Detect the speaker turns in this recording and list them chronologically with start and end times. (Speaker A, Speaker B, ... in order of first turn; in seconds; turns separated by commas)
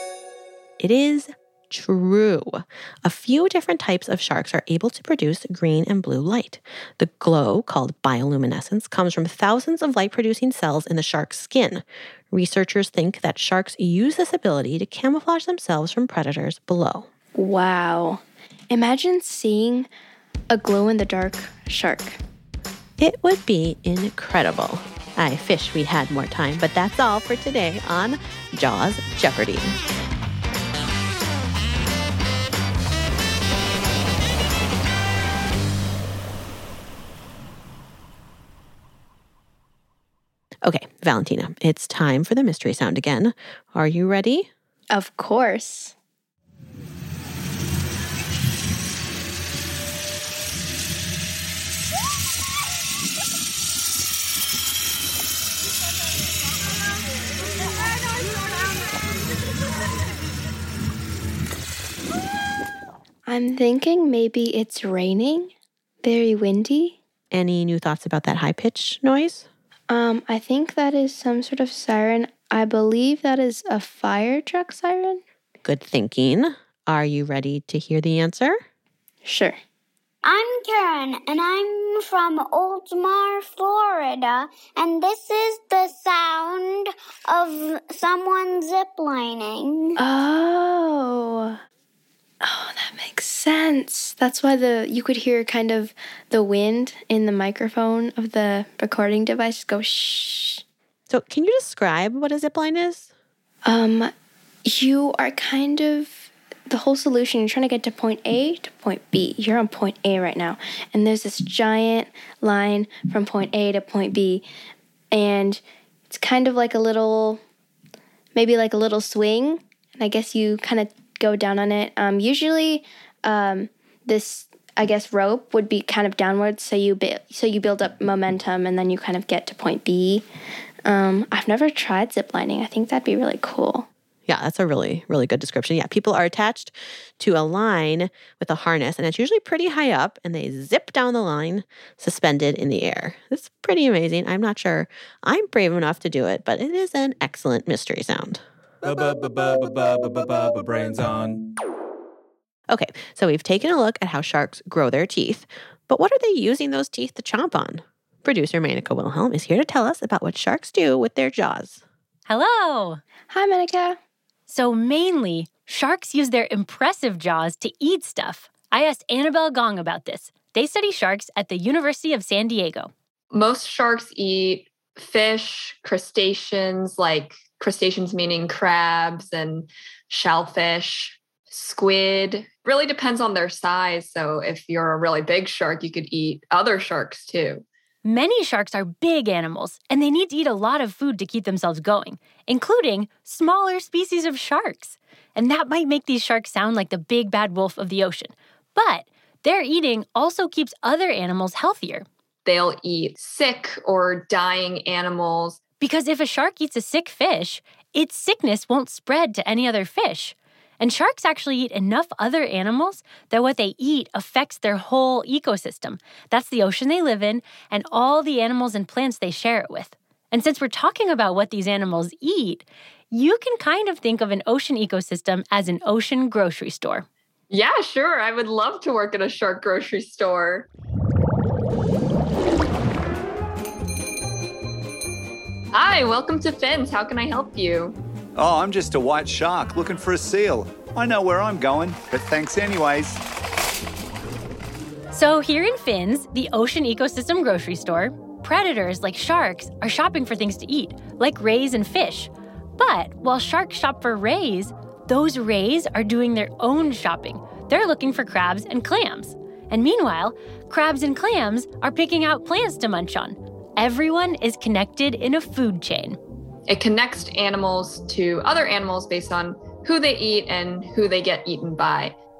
Speaker A: 0.8-17.1, Speaker B: 17.4-19.9, Speaker B: 20.5-22.2, Speaker A: 23.0-29.8, Speaker A: 40.6-44.5, Speaker B: 44.9-45.9, Speaker B: 63.3-65.5, Speaker B: 66.0-67.0, Speaker A: 67.3-69.5, Speaker B: 69.9-75.2, Speaker A: 75.6-78.6, Speaker B: 79.2-79.6, Speaker C: 80.2-90.0, Speaker B: 90.0-91.6, Speaker B: 92.4-100.6, Speaker A: 101.1-103.1, Speaker B: 103.6-104.1, Speaker B: 104.6-114.4, Speaker B: 115.1-117.4, Speaker B: 118.3-130.2, Speaker B: 130.8-133.9, Speaker A: 134.2-148.4, Speaker D: 148.8-151.4, Speaker A: 152.7-161.8, Speaker E: 162.3-163.0, Speaker B: 163.3-164.0, Speaker E: 164.5-172.9, Speaker F: 173.3-187.6, Speaker E: 188.0-202.1, Speaker F: 202.4-205.6, Speaker E: 205.8-227.1, Speaker F: 227.5-230.7, Speaker F: 235.7-237.9, Speaker G: 238.3-243.2, Speaker E: 245.1-266.2, Speaker F: 266.7-272.1